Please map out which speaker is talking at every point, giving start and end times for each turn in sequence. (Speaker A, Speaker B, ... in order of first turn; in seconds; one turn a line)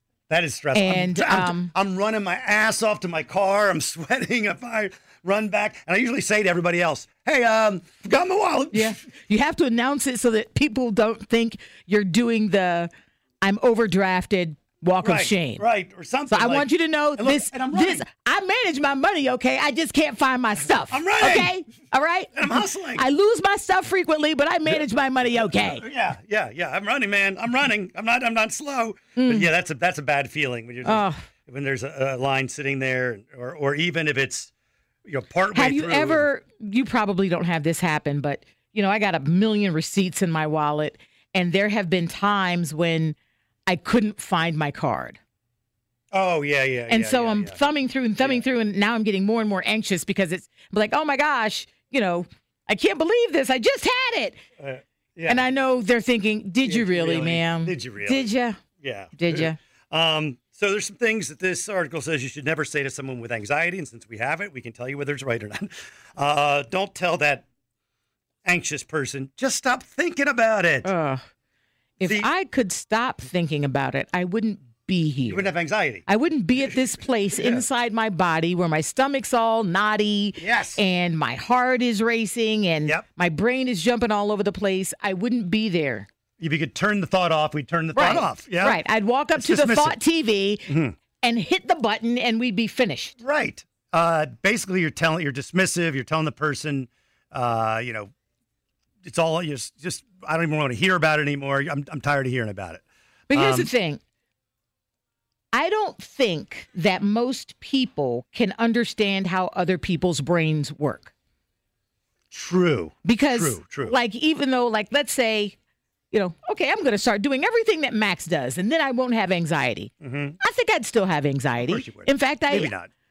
Speaker A: 0.3-9.0
Speaker B: 0.7-1.7
Speaker B: 8.7-12.9
Speaker B: 13.4-15.6
Speaker A: 15.0-18.1
Speaker B: 16.3-25.8
Speaker A: 20.9-21.6
Speaker A: 22.3-23.1
Speaker A: 24.7-34.5
Speaker B: 29.1-29.5
Speaker B: 30.8-31.2
Speaker A: 35.0-36.3
Speaker B: 35.5-43.1
Speaker B: 43.7-45.2
Speaker A: 46.1-47.6
Speaker B: 46.9-54.4
Speaker A: 48.2-48.5
Speaker A: 54.6-55.5
Speaker B: 55.3-58.6
Speaker A: 56.6-67.4
Speaker B: 59.1-59.6
Speaker A: 68.4-70.9
Speaker B: 70.8-71.2
Speaker B: 72.0-75.5
Speaker A: 72.0-72.3
Speaker A: 75.3-76.0
Speaker B: 76.1-86.1
Speaker A: 77.3-77.7
Speaker A: 80.4-80.8
Speaker A: 86.4-88.8
Speaker B: 87.9-90.7
Speaker A: 89.3-90.0
Speaker A: 90.7-91.0
Speaker B: 91.2-93.2
Speaker A: 93.2-98.1
Speaker A: 99.0-103.7
Speaker B: 103.3-104.0
Speaker B: 105.5-111.1
Speaker A: 112.3-114.0
Speaker B: 113.0-115.5
Speaker B: 116.1-122.7
Speaker A: 120.0-120.4
Speaker A: 121.6-122.9